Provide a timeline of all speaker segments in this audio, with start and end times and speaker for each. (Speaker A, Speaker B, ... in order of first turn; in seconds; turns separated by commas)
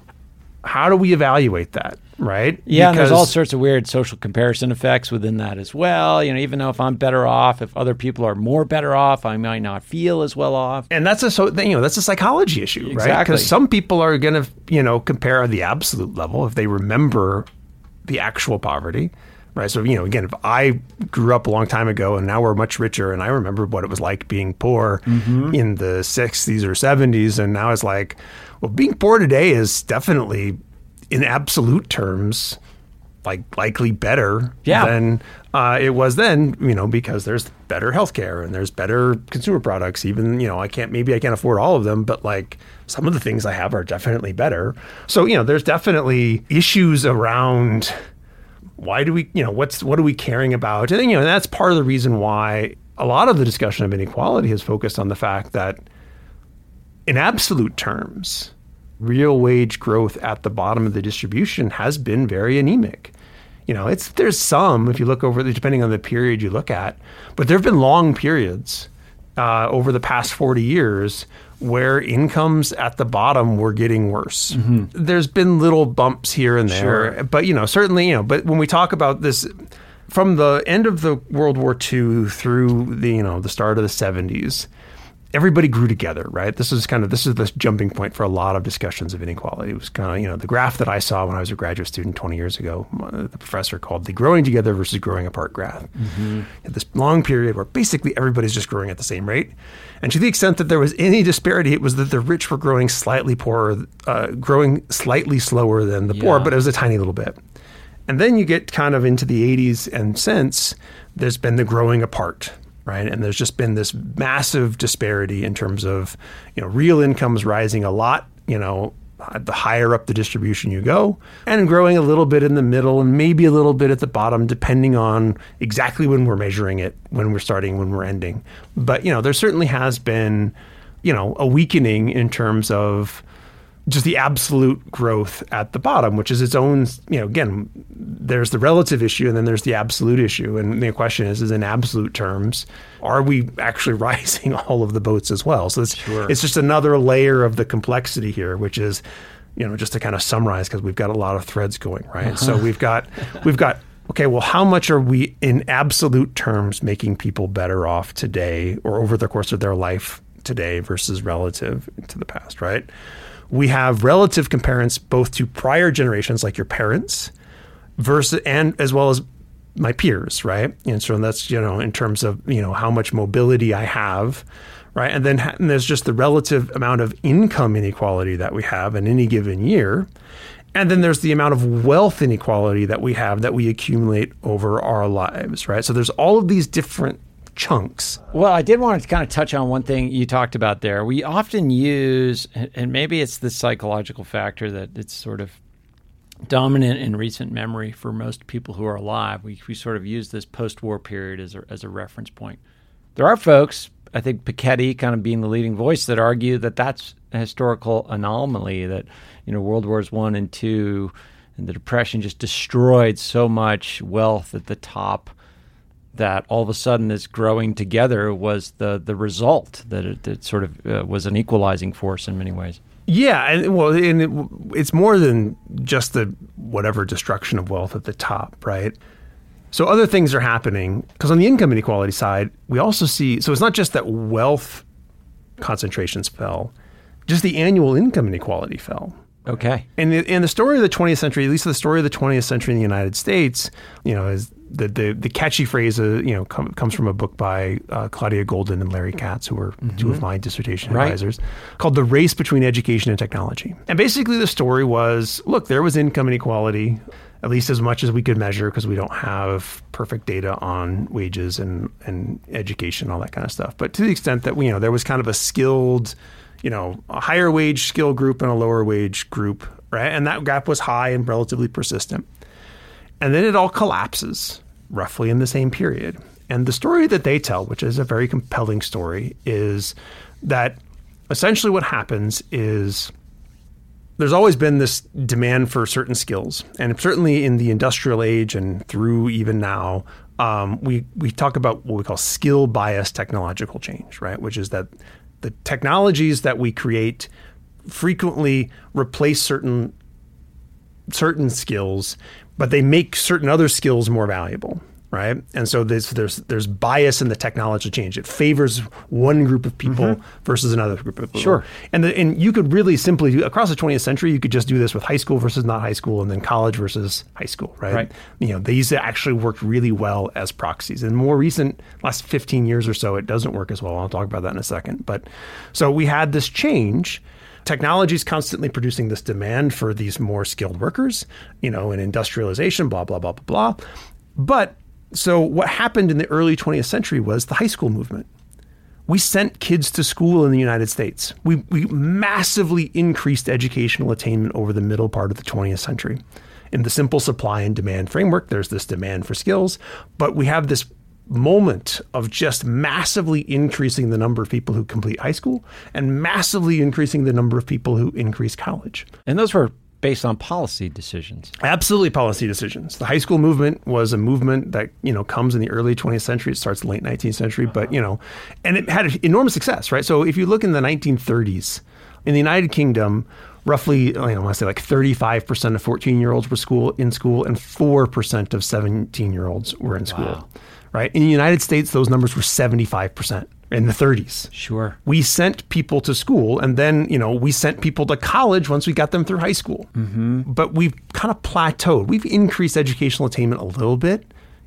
Speaker A: 0.6-3.3, Speaker B: 2.7-10.9, Speaker A: 10.9-17.5, Speaker B: 12.8-13.5, Speaker A: 18.1-30.6, Speaker B: 25.1-25.6, Speaker A: 31.1-32.6, Speaker A: 33.2-48.0, Speaker B: 34.6-34.9, Speaker A: 48.8-55.8, Speaker A: 57.1-63.1, Speaker A: 63.7-84.7, Speaker B: 74.5-74.9, Speaker B: 76.7-77.2, Speaker A: 85.3-107.4, Speaker B: 96.0-96.5, Speaker B: 106.1-106.5, Speaker A: 108.1-133.2, Speaker A: 133.9-149.0, Speaker B: 146.0-146.3, Speaker A: 149.6-162.9, Speaker B: 152.2-152.6, Speaker A: 163.5-167.3, Speaker A: 168.0-169.2, Speaker A: 169.8-180.1, Speaker A: 180.7-188.2, Speaker B: 188.3-195.6, Speaker B: 196.5-202.6, Speaker B: 203.2-215.3, Speaker B: 216.2-222.8, Speaker A: 223.1-228.9, Speaker A: 229.7-234.9, Speaker A: 235.6-236.7, Speaker A: 237.3-239.2, Speaker B: 239.5-239.9, Speaker A: 240.0-272.3, Speaker B: 249.8-250.2, Speaker B: 250.9-251.2, Speaker A: 273.2-283.1, Speaker A: 284.2-294.9, Speaker A: 295.4-297.3, Speaker A: 297.9-299.9, Speaker A: 301.1-333.8, Speaker B: 309.9-310.2, Speaker B: 311.4-311.6, Speaker A: 334.4-338.3, Speaker A: 339.1-359.1, Speaker B: 359.3-361.5, Speaker A: 361.6-384.5, Speaker B: 380.1-380.4, Speaker B: 384.5-385.0, Speaker A: 385.1-389.9, Speaker B: 389.9-390.4, Speaker A: 390.4-394.3